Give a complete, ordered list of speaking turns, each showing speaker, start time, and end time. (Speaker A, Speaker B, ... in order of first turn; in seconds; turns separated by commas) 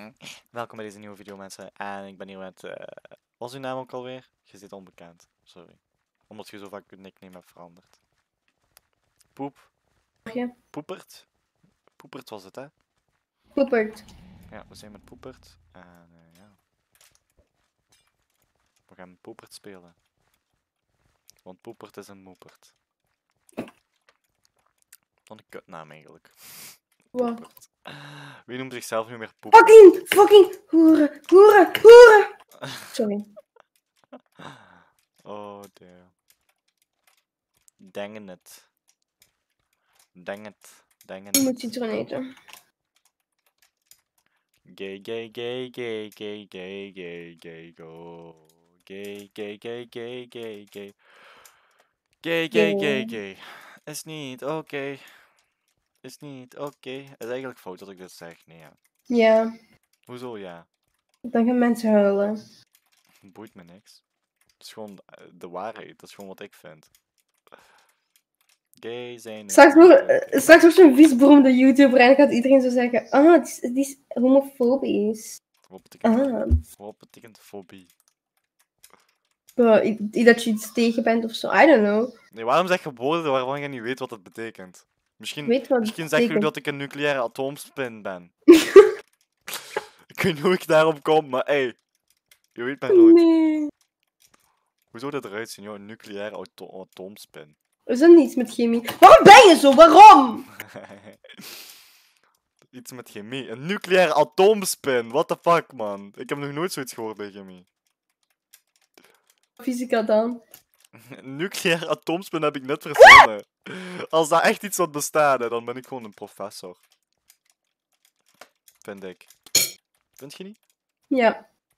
Speaker A: 0.5-8.0, Speaker A: 9.3-9.7, Speaker B: 10.3-10.5, Speaker A: 10.7-11.3, Speaker A: 12.0-12.7, Speaker B: 13.6-14.1, Speaker A: 14.5-16.6, Speaker A: 18.9-20.0, Speaker A: 21.4-22.7, Speaker A: 25.3-29.8, Speaker B: 27.1-27.4, Speaker B: 29.5-32.3, Speaker B: 32.9-33.3, Speaker A: 34.4-34.7, Speaker A: 35.2-36.1, Speaker A: 37.8-38.6, Speaker A: 40.2-41.7, Speaker B: 41.4-42.3, Speaker A: 44.7-51.0, Speaker A: 52.2-55.0, Speaker B: 52.5-53.1, Speaker A: 56.0-58.8, Speaker B: 59.1-59.5, Speaker A: 60.1-60.7, Speaker B: 61.2-62.4, Speaker A: 63.2-64.0, Speaker A: 64.6-66.9, Speaker A: 68.8-70.6, Speaker B: 69.5-75.4, Speaker A: 75.7-77.9, Speaker B: 76.0-76.6, Speaker B: 79.6-82.1, Speaker A: 82.3-88.3, Speaker B: 85.5-86.5, Speaker B: 88.6-88.9, Speaker A: 90.1-91.8, Speaker A: 92.5-93.2, Speaker B: 92.9-93.7, Speaker A: 94.9-97.5, Speaker B: 97.9-100.5, Speaker A: 100.8-101.6, Speaker A: 102.7-107.7, Speaker B: 109.6-110.4, Speaker A: 111.0-116.8, Speaker A: 118.8-119.3, Speaker A: 120.2-120.6, Speaker B: 121.1-121.4